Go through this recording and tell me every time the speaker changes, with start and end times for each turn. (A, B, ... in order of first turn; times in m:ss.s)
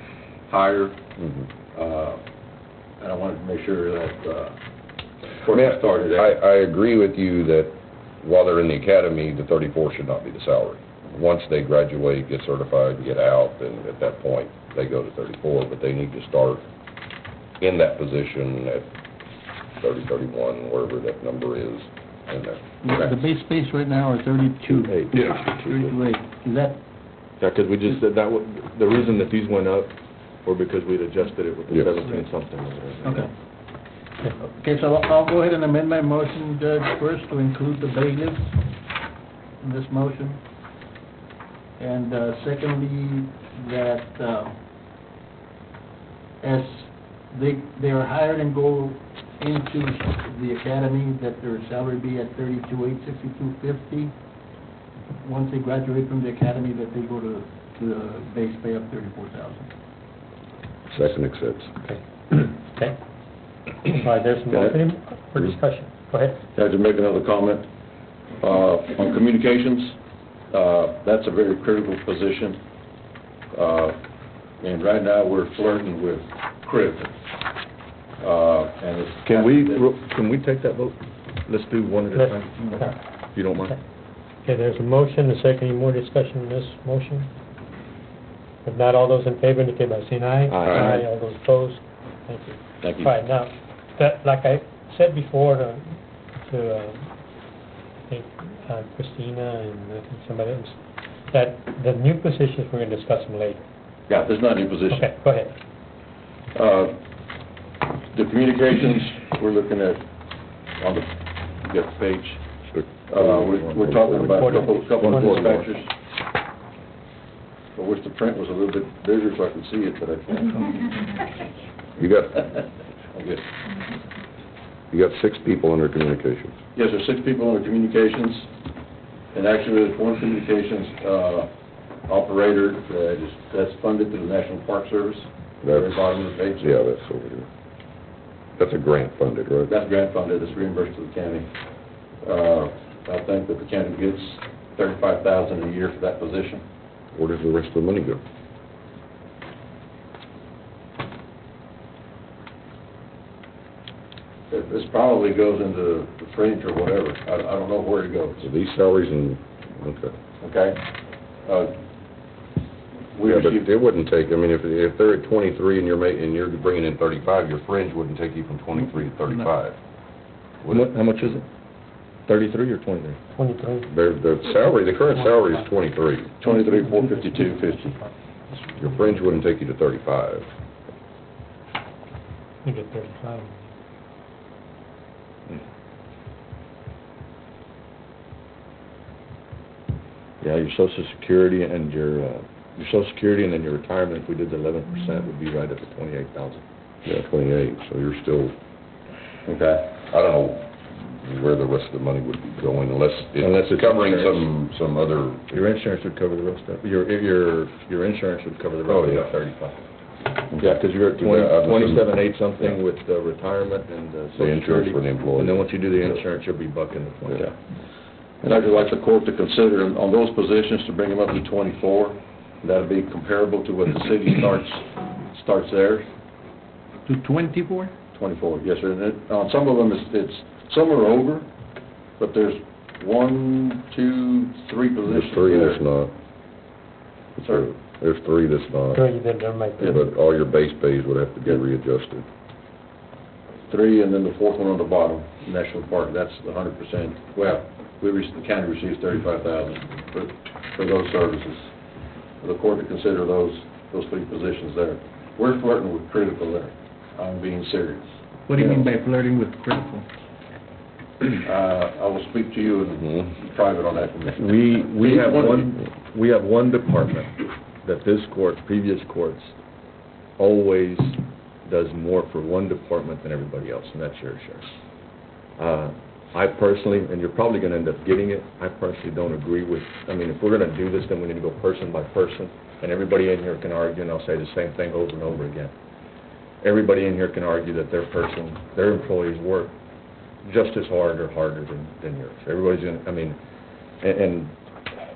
0:00.4-0:01.0 A
0:01.2-0:01.5 B
0:01.7-0:02.2 A
0:03.0-0:04.6 A
0:05.4-0:06.4 A
0:05.5-0:16.6 B
0:17.6-0:18.9 B
0:19.8-0:22.9 B
0:22.8-0:26.8 C
0:24.8-0:26.0 D
0:25.1-0:25.4 B
0:27.4-0:33.3 D
0:31.7-0:32.0 B
0:33.0-0:33.3 C
0:34.3-0:38.8 C
0:39.6-0:40.4 C
0:41.8-0:44.6 C
0:46.4-0:54.1 C
0:55.2-0:59.7 C
1:00.9-1:01.7 B
1:01.8-1:03.0 E
1:03.7-1:06.4 E
1:04.5-1:04.8 A
1:06.6-1:07.7 A
1:08.4-1:10.0 A
1:10.5-1:12.6 A
1:13.5-1:14.0 A
1:14.6-1:17.1 A
1:18.2-1:19.9 A
1:19.2-1:23.8 D
1:22.1-1:23.8 E
1:24.4-1:27.3 E
1:28.6-1:37.1 E
1:30.5-1:30.9 D
1:30.6-1:31.0 A
1:32.8-1:33.1 A
1:38.1-1:43.6 E
1:44.1-1:45.1 A
1:44.9-1:45.6 E
1:46.5-1:47.0 A
1:48.1-1:52.4 A
1:53.1-1:55.9 A
1:53.1-1:55.7 D
1:54.2-1:55.6 E
1:57.8-2:01.0 A
2:02.0-2:02.4 B
2:02.5-2:03.4 A
2:04.9-2:06.5 B
2:06.8-2:08.5 A
2:09.3-2:11.5 A
2:12.0-2:16.8 A
2:15.6-2:17.5 B
2:18.6-2:19.7 B
2:19.7-2:21.5 A
2:22.2-2:26.6 A
2:27.1-2:28.2 B
2:34.5-2:38.4 A
2:38.4-2:40.2 B
2:40.4-2:40.9 A
2:41.4-2:41.7 A
2:43.1-2:43.7 A
2:43.2-2:49.8 B
2:50.7-2:51.4 D
2:52.3-2:53.2 D
2:53.3-2:53.9 E
2:53.9-2:56.3 B
2:55.1-2:55.6 E
2:56.4-2:57.9 A
2:56.9-2:58.1 E
2:58.8-3:00.5 B
3:02.6-3:03.5 E
3:10.4-3:16.6 D
3:17.0-3:18.5 B
3:19.5-3:19.9 A
3:20.0-3:25.6 B
3:23.4-3:24.5 D
3:25.5-3:29.8 D
3:28.9-3:29.3 B
3:30.5-3:32.8 B
3:30.6-3:37.6 D
3:34.4-3:36.2 B
3:38.4-3:46.1 A
3:47.1-3:47.9 C
3:48.1-3:51.5 A
3:52.2-3:55.8 A
3:55.1-3:56.1 B
3:57.4-3:57.7 A
3:57.4-3:59.0 B
3:58.9-4:00.0 E
3:59.8-4:02.2 B
4:03.7-4:11.7 A
4:12.4-4:18.1 A
4:18.5-4:20.1 C
4:21.4-4:25.8 A
4:24.4-4:29.5 D
4:30.4-4:34.7 D
4:35.6-4:45.7 D
4:46.6-4:49.7 D
4:50.4-4:53.4 D
4:54.0-4:54.5 D